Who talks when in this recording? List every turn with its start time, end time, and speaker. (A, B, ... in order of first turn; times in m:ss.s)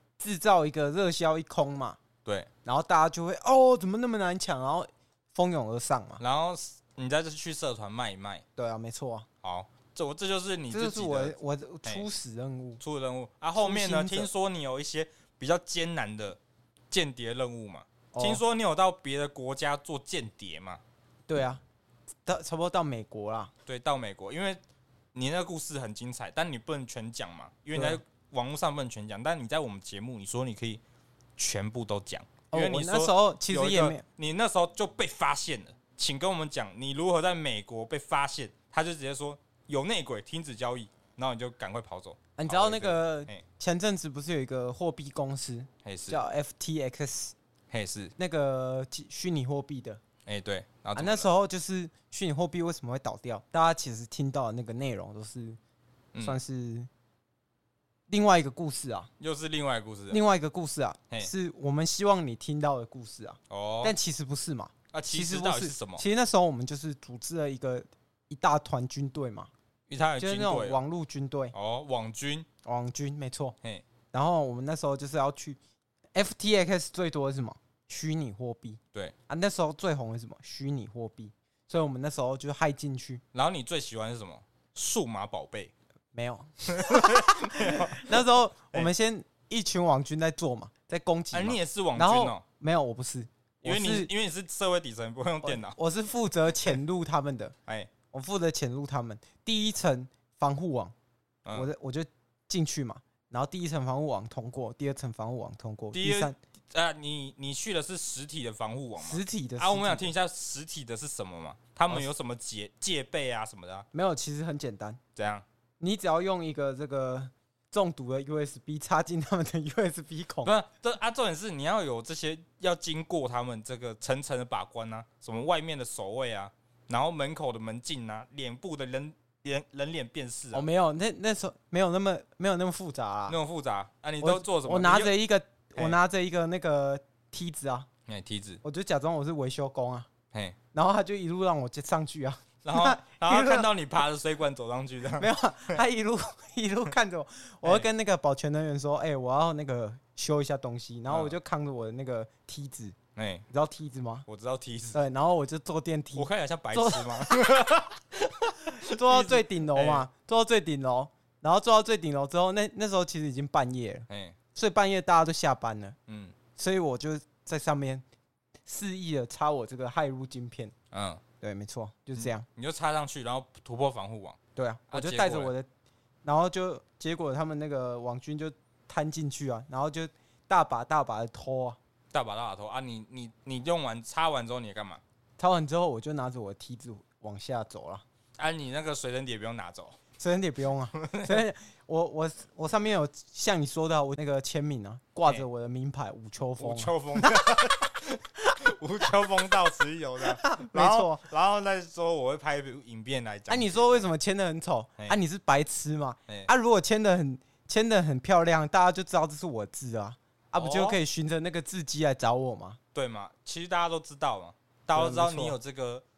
0:00.2-0:02.0 A
0:02.2-0:02.5 B
0:02.6-0:06.2 A
0:06.2-0:08.4 B
0:08.6-0:09.3 A
0:09.4-0:12.1 B
0:10.7-0:12.8 A
0:12.8-0:16.4 B
0:13.6-0:14.3 A
0:16.9-0:20.8 B
0:18.1-0:18.4 A
0:21.3-0:21.6 A
0:22.2-0:23.5 A
0:23.7-0:24.6 B
0:25.1-0:30.8 B
0:27.7-0:28.0 A
0:31.4-0:43.4 B
0:32.5-0:34.0 A
0:42.4-0:47.4 A
0:45.8-0:46.2 B
0:47.7-0:48.1 B
0:48.2-0:50.0 A
0:50.2-0:51.3 B
0:50.9-0:55.6 A
0:56.1-0:56.4 B
0:56.2-0:56.9 A
0:58.1-0:59.1 A
0:59.2-1:00.2 B
1:00.1-1:09.5 A
1:03.5-1:04.0 B
1:04.9-1:06.0 B
1:09.9-1:10.8 B
1:10.2-1:11.5 A
1:11.5-1:12.5 B
1:12.6-1:13.6 A
1:14.1-1:15.6 A
1:16.1-1:23.2 A
1:23.3-1:25.7 B
1:26.1-1:34.1 A
1:26.7-1:28.9 B
1:31.3-1:32.4 B
1:33.6-1:35.8 B
1:35.4-1:37.6 A
1:38.1-1:40.9 A
1:41.4-1:41.7 B
1:41.5-1:46.4 A
1:45.9-1:53.9 B
1:49.0-1:50.1 A
1:53.9-1:55.0 A
1:55.2-1:55.4 B
1:55.8-2:00.5 A
2:00.4-2:10.7 B
2:10.5-2:13.4 A
2:13.3-2:15.2 B
2:14.2-2:17.9 A
2:18.1-2:18.6 B
2:18.6-2:20.1 A
2:20.3-2:20.6 B
2:20.7-2:23.7 A
2:22.6-2:25.8 B
2:25.2-2:33.0 A
2:31.1-2:31.4 B
2:33.2-2:33.5 B
2:33.5-2:34.3 A
2:34.3-2:35.0 B
2:34.9-2:37.4 A
2:36.1-2:40.1 B
2:38.7-2:46.0 A
2:44.1-2:44.4 B
2:46.1-2:46.4 B
2:46.6-2:48.0 A
2:48.7-2:50.7 A
2:50.9-2:51.2 B
2:51.4-2:52.5 A
2:52.2-2:54.4 B
2:54.6-2:55.7 A
2:54.9-2:55.5 B
2:56.2-3:01.8 A
3:02.1-3:05.0 B
3:05.4-3:08.0 A
3:08.4-3:10.0 B
3:10.2-3:17.6 A
3:11.0-3:11.4 B
3:16.6-3:24.1 B
3:20.3-3:21.2 A
3:23.5-3:32.8 A
3:30.6-3:31.0 B
3:32.9-3:36.0 B
3:34.9-3:35.6 A